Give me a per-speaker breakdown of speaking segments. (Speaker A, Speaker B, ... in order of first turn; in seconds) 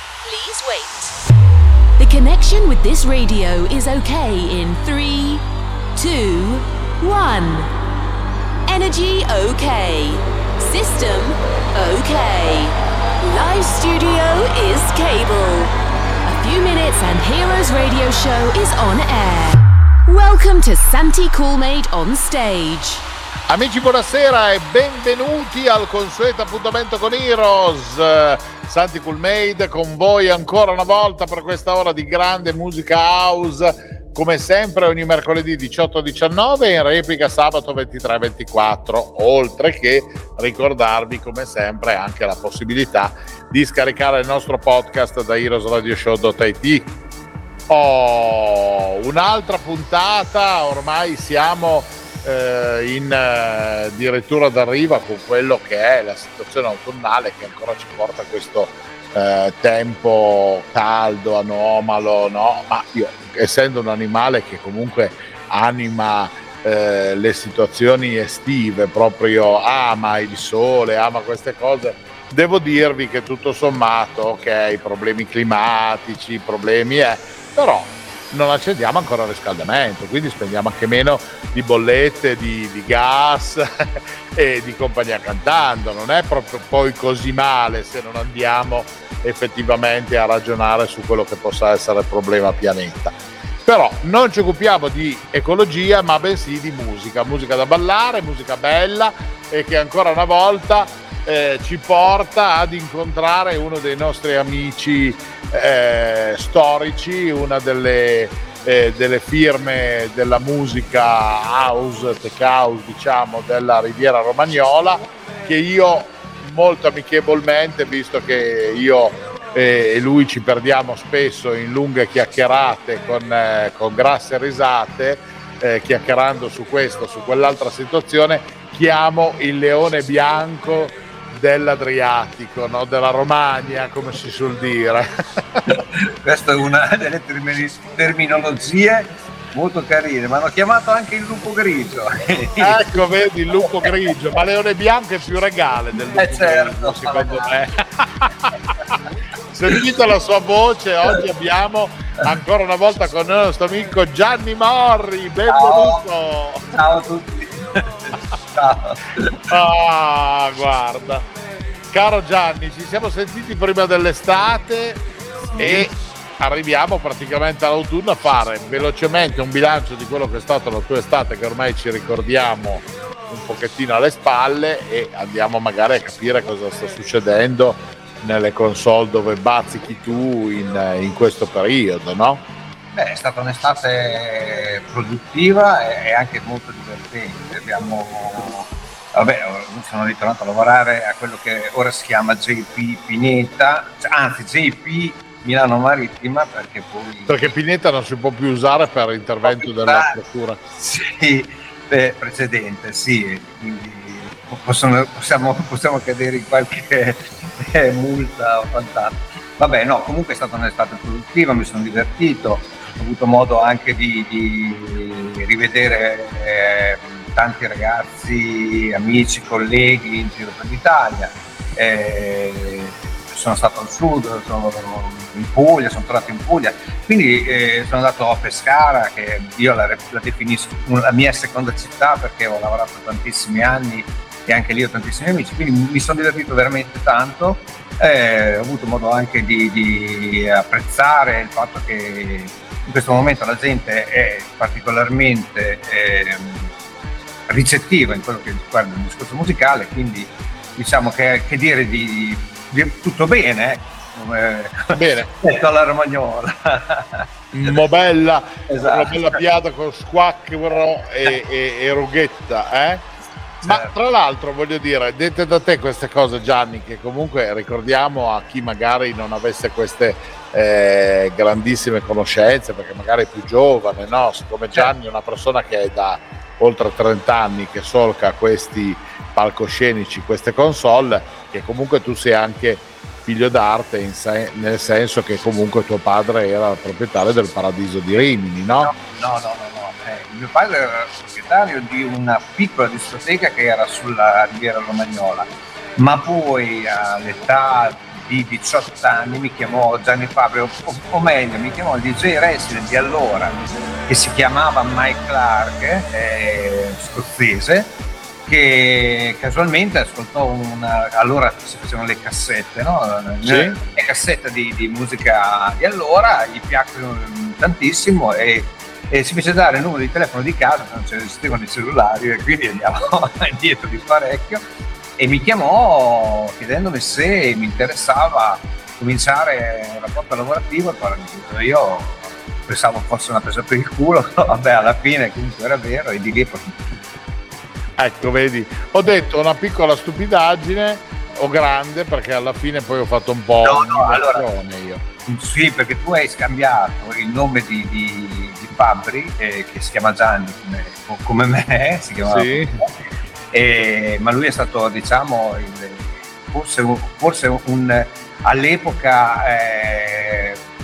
Speaker A: 0.2-1.1, 2.0-5.4, 6.0-7.7, 8.7-15.7, 16.3-23.0
Speaker B: 23.5-46.9, 47.7-135.6, 142.6-148.6, 149.5-156.8, 159.5-161.2, 161.9-165.0, 165.6-182.4, 197.3-200.6, 254.9-255.3, 257.5-263.0, 263.6-288.9, 313.4-313.8, 338.0-345.0, 352.3-352.8
Speaker C: 135.7-143.0, 146.1-147.5, 155.5-156.0, 156.7-159.4, 165.6-165.9, 182.9-197.5, 199.4-200.2, 200.8-246.7, 247.5-257.8, 258.7-259.2, 263.6-263.9, 288.8-307.9, 308.4-324.6, 325.2-336.9, 343.6-344.4, 345.2-352.9, 353.5-360.6